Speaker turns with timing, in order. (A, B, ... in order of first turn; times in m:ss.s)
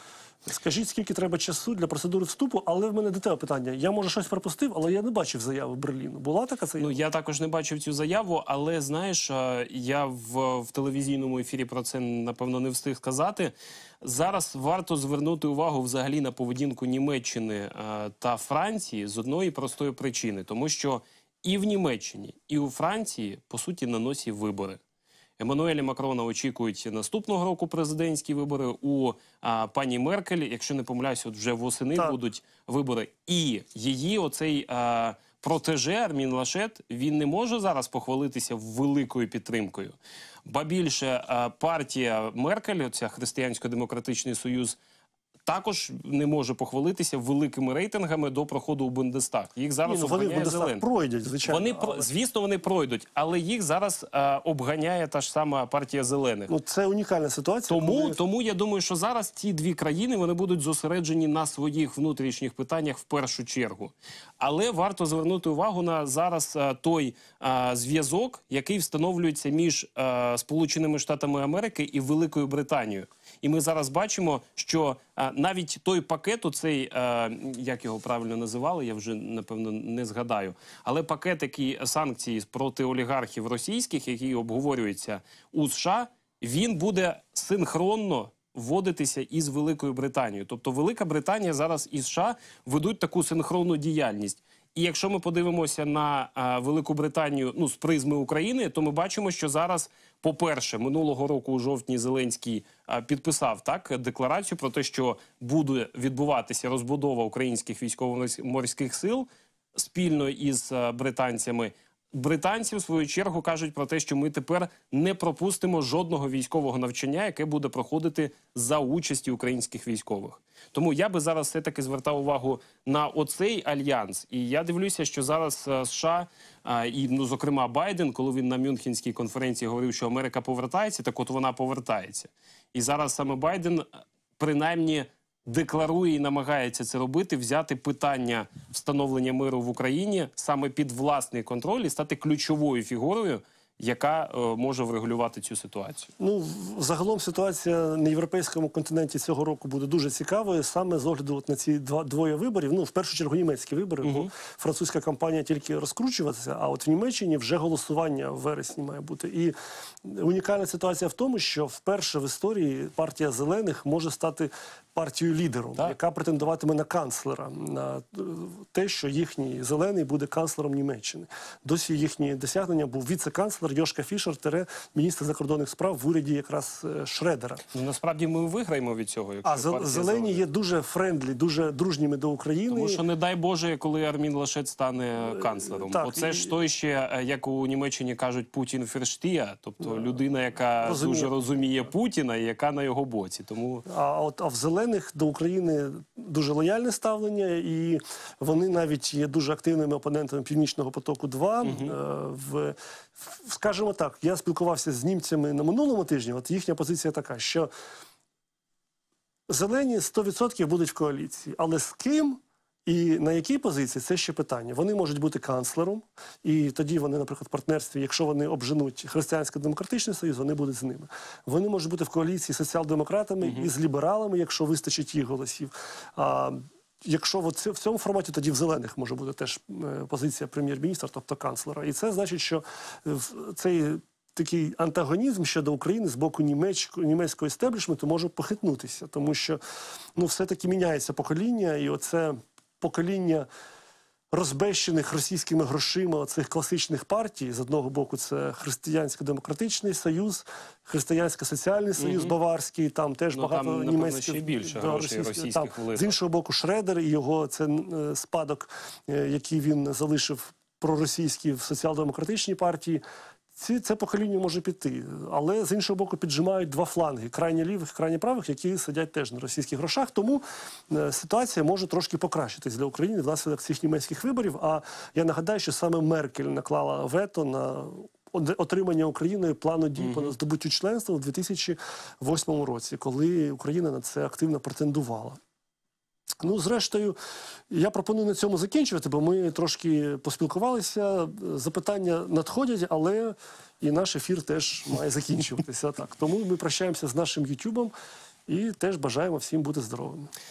0:00.5-0:07.0 A
0:06.8-0:24.8 B
0:25.4-0:44.8 B
0:45.5-0:50.8 B
0:49.9-0:52.0 A
0:51.5-0:56.5 B
0:56.5-0:58.2 A
0:57.7-2:13.9 B
2:14.4-2:26.1 B
2:26.2-2:57.6 A
2:34.0-2:34.3 B
2:57.7-3:00.4 B
2:59.4-3:03.0 A
3:02.7-3:13.8 B
3:05.3-3:06.5 A
3:10.8-3:11.3 A
3:13.9-3:27.7 A
3:21.6-3:22.0 B
3:29.5-3:59.6 A
3:43.4-3:43.7 B
4:00.2-4:03.5 A
4:04.3-4:23.0 A
4:12.0-4:12.3 B
4:13.4-4:16.1 B
4:23.6-4:45.4 A
4:40.0-4:40.3 B
4:46.4-4:47.2 A
4:47.7-4:57.9 A
4:58.5-5:00.3 A